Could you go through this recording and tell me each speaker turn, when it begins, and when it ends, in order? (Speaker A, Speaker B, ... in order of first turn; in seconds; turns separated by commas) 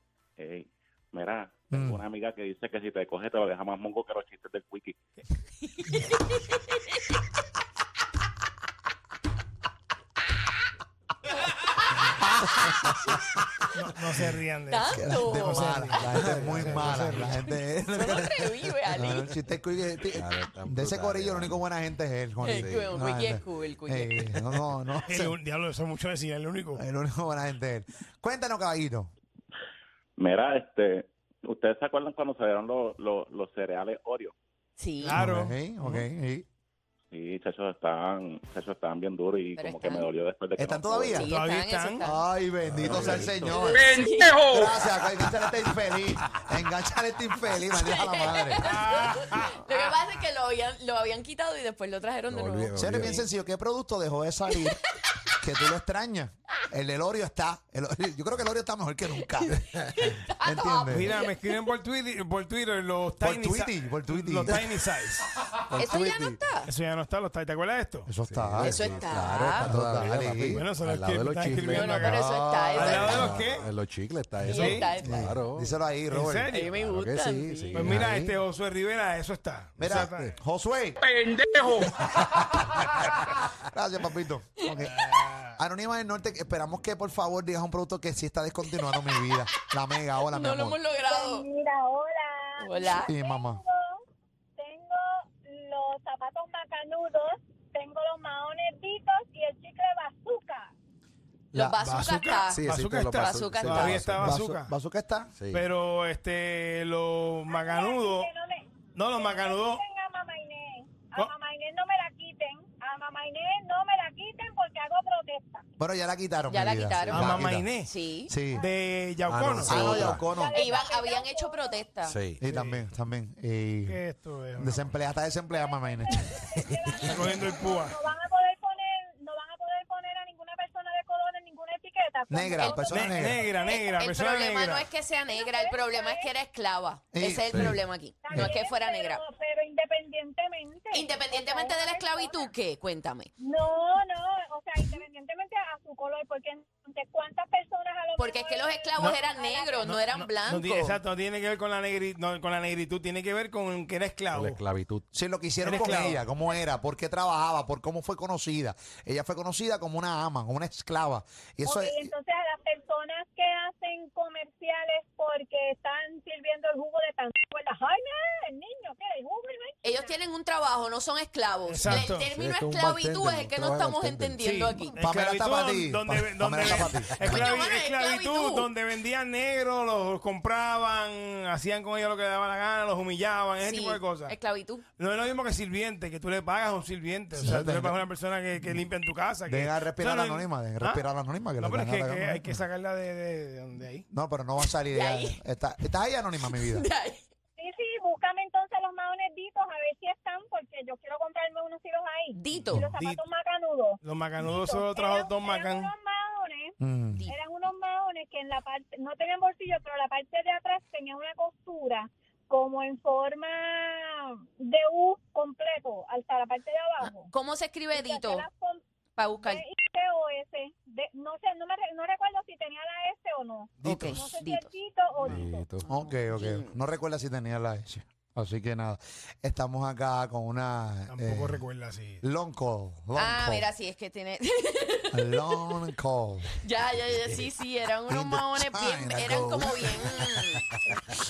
Speaker A: 0.4-5.0, Speaker B: 1.7-2.0, Speaker C: 5.7-7.0, Speaker C: 12.5-13.2, Speaker D: 13.7-17.4, Speaker C: 14.7-19.4, Speaker B: 14.9-25.4, Speaker E: 20.1-21.6, Speaker C: 22.4-24.4, Speaker E: 22.5-22.9, Speaker D: 25.1-26.8, Speaker B: 26.8-29.1, Speaker A: 30.2-34.4, Speaker C: 34.8-35.2, Speaker D: 35.0-36.1, Speaker B: 35.1-36.5, Speaker A: 37.1-41.1, Speaker C: 39.5-40.1, Speaker B: 40.6-41.3, Speaker C: 41.1-42.2, Speaker D: 41.2-42.0, Speaker B: 42.0-44.0, Speaker E: 42.6-43.7, Speaker C: 43.0-44.3, Speaker F: 43.7-44.9, Speaker B: 44.5-48.7, Speaker C: 47.6-53.3, Speaker D: 48.6-50.0, Speaker E: 52.3-53.2, Speaker B: 52.8-54.8, Speaker B: 55.4-59.9, Speaker C: 59.2-61.4, Speaker B: 60.4-61.1, Speaker D: 60.9-65.3, Speaker B: 63.2-64.6, Speaker E: 65.7-66.4, Speaker C: 65.8-66.7, Speaker D: 66.7-68.1, Speaker B: 68.1-68.9, Speaker E: 68.3-72.0, Speaker C: 68.6-69.7, Speaker B: 69.6-70.7, Speaker D: 70.5-73.7, Speaker C: 71.7-73.3, Speaker B: 72.0-73.3, Speaker E: 73.0-75.8, Speaker D: 74.4-74.9, Speaker C: 74.5-75.4, Speaker B: 75.0-76.5, Speaker D: 76.1-76.7, Speaker C: 76.5-78.0, Speaker E: 76.6-78.4, Speaker D: 77.7-80.3, Speaker B: 79.8-81.0, Speaker E: 79.8-80.3, Speaker F: 81.0-81.9, Speaker E: 82.0-82.4, Speaker B: 83.6-90.8, Speaker C: 84.6-85.1, Speaker D: 85.0-85.4, Speaker C: 89.1-89.6, Speaker C: 90.3-91.5, Speaker G: 91.1-94.0, Speaker C: 92.6-93.1, Speaker B: 93.1-93.6, Speaker G: 94.6-100.7, Speaker B: 101.5-101.8, Speaker C: 101.5-104.0, Speaker D: 101.8-104.7, Speaker E: 102.5-104.3, Speaker B: 104.2-105.3, Speaker E: 105.4-105.6, Speaker D: 105.5-108.3, Speaker G: 107.5-115.6, Speaker D: 109.0-109.8, Speaker B: 115.8-117.7, Speaker C: 116.5-118.3, Speaker D: 117.1-117.9, Speaker B: 118.3-118.7, Speaker D: 118.6-119.9, Speaker E: 119.3-120.3, Speaker B: 119.6-120.6, Speaker G: 120.0-121.8, Speaker C: 120.5-122.2, Speaker E: 122.0-122.4, Speaker B: 122.4-124.0, Speaker D: 122.4-122.9, Speaker D: 123.8-125.0, Speaker B: 124.6-126.4, Speaker G: 125.5-134.0, Speaker D: 127.0-128.0, Speaker B: 132.3-133.4, Speaker D: 132.9-134.9, Speaker C: 133.7-139.2, Speaker G: 135.3-136.3, Speaker B: 137.1-137.8, Speaker E: 137.5-137.8, Speaker G: 138.2-142.5, Speaker C: 140.9-143.3, Speaker G: 143.4-149.9, Speaker C: 148.2-151.0, Speaker D: 149.8-154.6, Speaker E: 154.3-155.1, Speaker B: 155.1-162.1, Speaker D: 155.6-156.2, Speaker G: 161.6-170.2, Speaker C: 169.8-175.0, Speaker D: 171.7-172.3, Speaker E: 171.8-174.5, Speaker D: 174.4-184.4, Speaker B: 175.0-177.4, Speaker C: 177.2-178.7, Speaker C: 183.6-184.8, Speaker D: 185.0-194.1, Speaker B: 187.3-188.0, Speaker B: 189.5-192.5, Speaker B: 194.1-196.9, Speaker C: 194.9-195.4, Speaker C: 196.5-197.2, Speaker G: 197.6-206.7, Speaker C: 202.3-202.9, Speaker D: 202.8-203.2, Speaker D: 204.0-205.9, Speaker B: 206.8-207.2, Speaker G: 207.3-217.3, Speaker C: 217.0-218.4, Speaker G: 217.9-218.8, Speaker C: 219.2-219.6, Speaker G: 219.4-225.7, Speaker D: 223.8-224.2, Speaker B: 223.8-224.2, Speaker C: 223.8-224.7, Speaker E: 225.2-225.9, Speaker B: 225.8-231.6, Speaker C: 226.0-226.7, Speaker D: 231.1-232.2, Speaker B: 232.2-233.7, Speaker C: 233.2-235.8, Speaker B: 235.1-236.5, Speaker C: 236.6-240.8, Speaker B: 238.1-240.2